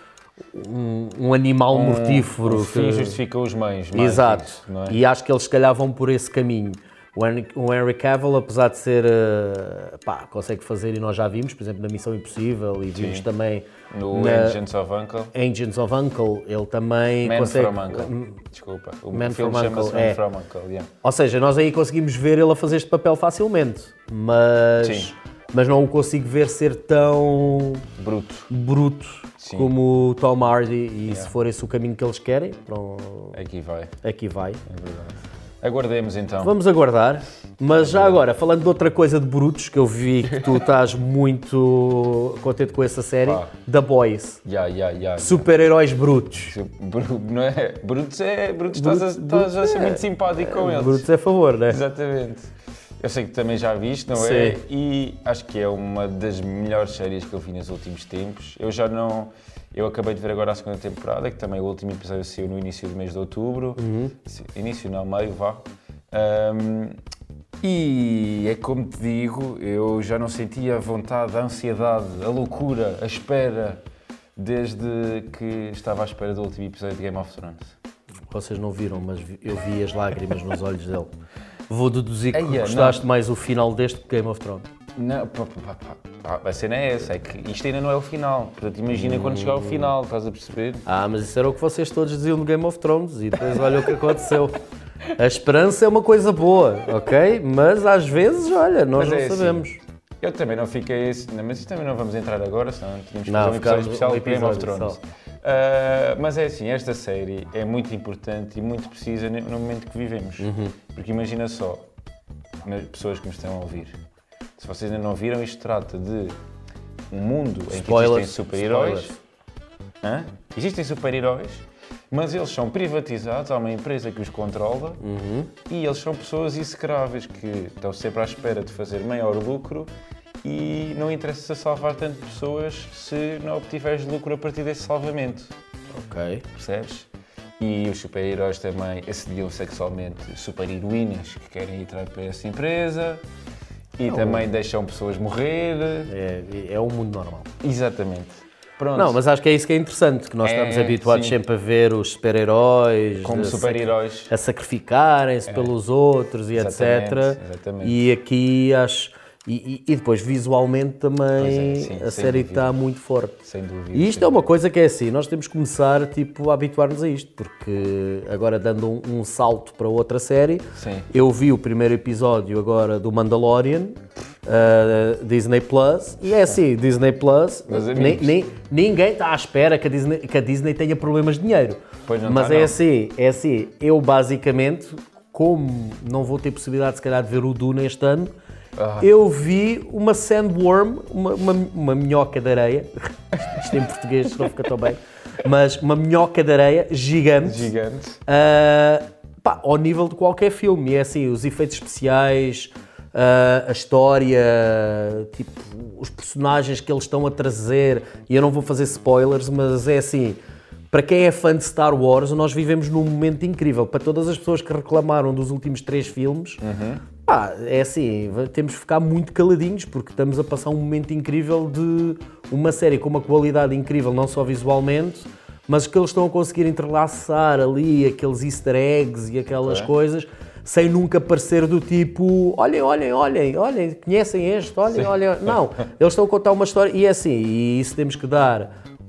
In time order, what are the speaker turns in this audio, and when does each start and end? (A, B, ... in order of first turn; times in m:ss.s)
0:00.5-0:03.2 A
0:01.7-0:05.0 B
0:03.9-0:14.6 A
0:12.9-0:13.3 B
0:13.9-0:15.3 B
0:15.3-0:18.4 A
0:17.2-0:20.9 B
0:19.1-0:20.2 A
0:21.0-0:27.9 A
0:24.8-0:25.1 B
0:28.0-0:28.5 B
0:28.5-0:33.4 A
0:29.4-0:29.7 B
0:31.1-0:31.3 B
0:33.3-0:34.0 B
0:34.0-0:34.6 A
0:34.7-0:36.6 B
0:36.4-0:44.4 A
0:37.8-0:38.2 B
0:40.2-0:40.7 B
0:43.3-0:43.5 B
0:44.4-0:45.5 B
0:45.2-0:46.6 A
0:46.4-0:51.1 B
0:48.7-0:51.8 A
0:51.7-1:07.0 B
0:54.2-0:54.6 A
1:03.8-1:04.2 A
1:07.6-1:13.8 B
1:14.4-1:17.8 B
1:18.3-1:21.1 A
1:21.7-1:24.7 A
1:22.3-1:23.0 B
1:25.0-1:30.9 B
1:28.9-1:29.9 A
1:30.9-1:34.6 A
1:33.4-1:33.9 B
1:35.2-1:39.8 A
1:39.0-1:39.7 B
1:40.2-1:51.9 B
1:43.3-1:45.0 A
1:50.4-1:50.8 A
1:52.6-1:54.0 B
1:54.6-1:56.4 B
1:57.1-1:59.1 B
1:57.7-1:59.2 A
2:00.0-2:05.0 B
2:05.0-2:05.5 A
2:05.7-2:09.9 B
2:10.4-2:15.6 B
2:15.9-2:16.4 A
2:16.5-2:23.2 B
2:24.0-2:26.1 B
2:24.1-2:24.5 A
2:26.1-2:27.5 A
2:27.6-2:29.2 B
2:29.0-2:43.4 A
2:30.4-2:31.4 B
2:33.2-2:34.3 B
2:35.5-2:35.7 B
2:36.5-2:38.0 B
2:41.4-2:42.7 B
2:43.4-2:44.4 B
2:43.9-3:08.3 A
2:50.8-2:51.1 B
2:57.7-2:58.4 B
3:02.1-3:02.8 B
3:08.8-3:09.1 B
3:09.0-3:17.7 A
3:17.4-3:18.2 B
3:18.3-3:30.4 A
3:30.9-3:36.6 A
3:36.6-3:37.0 B
3:37.3-3:58.7 A
3:49.6-3:49.9 B
3:54.9-3:55.6 B